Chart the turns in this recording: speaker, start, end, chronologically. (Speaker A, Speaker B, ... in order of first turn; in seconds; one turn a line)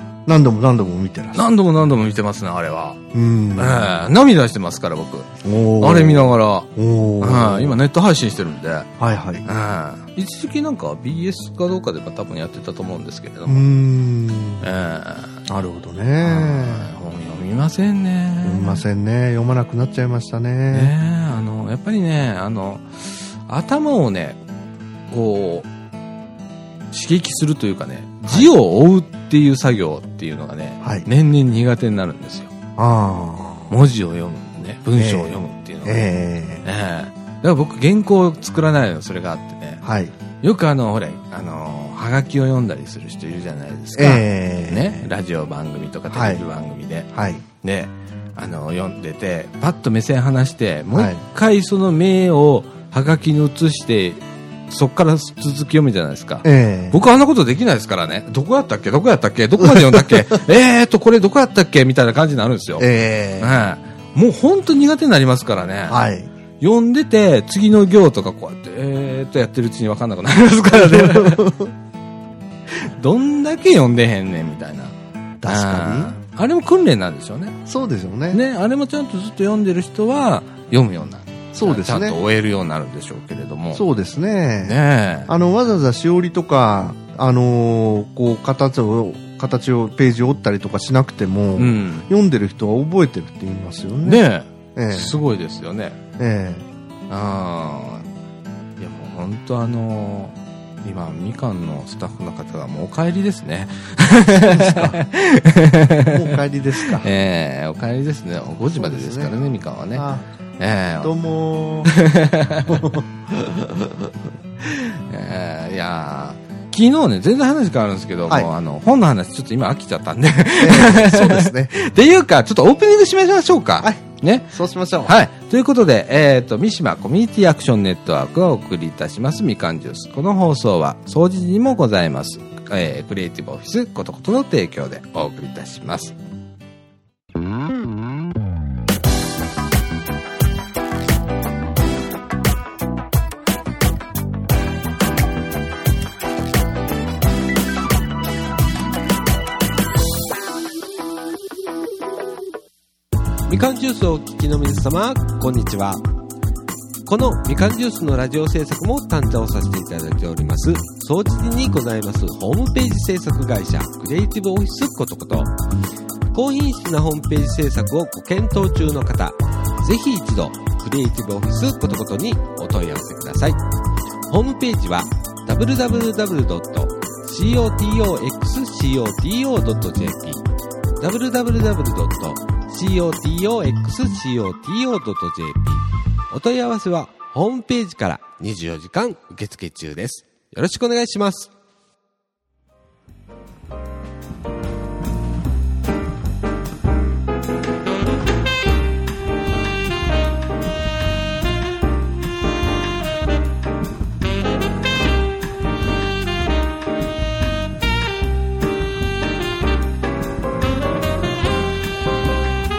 Speaker A: 0.3-1.4
Speaker B: 1.3-3.0
Speaker A: 3.1-3.9
Speaker B: 3.5-6.7
Speaker A: 5.4-7.8
Speaker B: 7.2-8.9
Speaker A: 9.0-9.4
Speaker B: 9.4-13.7
Speaker A: 13.5-14.7
Speaker B: 14.6-15.4
Speaker A: 15.5-16.9
Speaker B: 16.2-18.8
Speaker A: 18.4-20.9
Speaker B: 20.7-24.4
Speaker B: 25.1-25.7
Speaker B: 26.9-32.5
Speaker A: 30.8-31.1
Speaker A: 32.8-33.7
Speaker B: 33.7-36.1
Speaker A: 35.0-36.6
Speaker B: 36.6-39.8
Speaker A: 39.8-40.1
Speaker B: 40.4-47.1
Speaker A: 44.0-45.1
Speaker A: 46.1-46.4
Speaker A: 47.1-47.4
Speaker B: 47.6-62.9
Speaker A: 50.9-51.2
Speaker A: 56.4-57.0
Speaker A: 59.6-60.4
Speaker A: 62.8-63.6
Speaker B: 63.4-66.0
Speaker A: 65.9-66.3
Speaker B: 66.6-71.5
Speaker A: 70.7-71.7
Speaker B: 72.7-74.9
Speaker A: 75.4-76.2
Speaker B: 75.5-77.6
Speaker A: 77.7-78.4
Speaker B: 78.3-83.8
Speaker A: 81.5-82.2
Speaker A: 83.7-84.8
Speaker B: 84.6-85.3
Speaker A: 85.3-94.2
Speaker B: 91.6-92.0
Speaker B: 94.0-96.0
Speaker A: 94.8-95.2
Speaker A: 96.2-96.7
Speaker B: 97.1-98.1
Speaker B: 98.8-110.0
Speaker A: 104.4-105.0
Speaker A: 106.1-107.1
Speaker A: 108.7-109.3
Speaker A: 109.9-110.2
Speaker B: 110.6-111.1
Speaker A: 111.0-112.0
Speaker B: 111.9-112.9
Speaker A: 112.7-113.5
Speaker B: 114.6-136.2
Speaker A: 120.6-121.8
Speaker A: 123.8-125.2
Speaker C: 153.5-156.0
Speaker C: 157.1-165.5
Speaker C: 166.3-173.6
Speaker C: 174.3-180.4
Speaker C: 181.0-191.5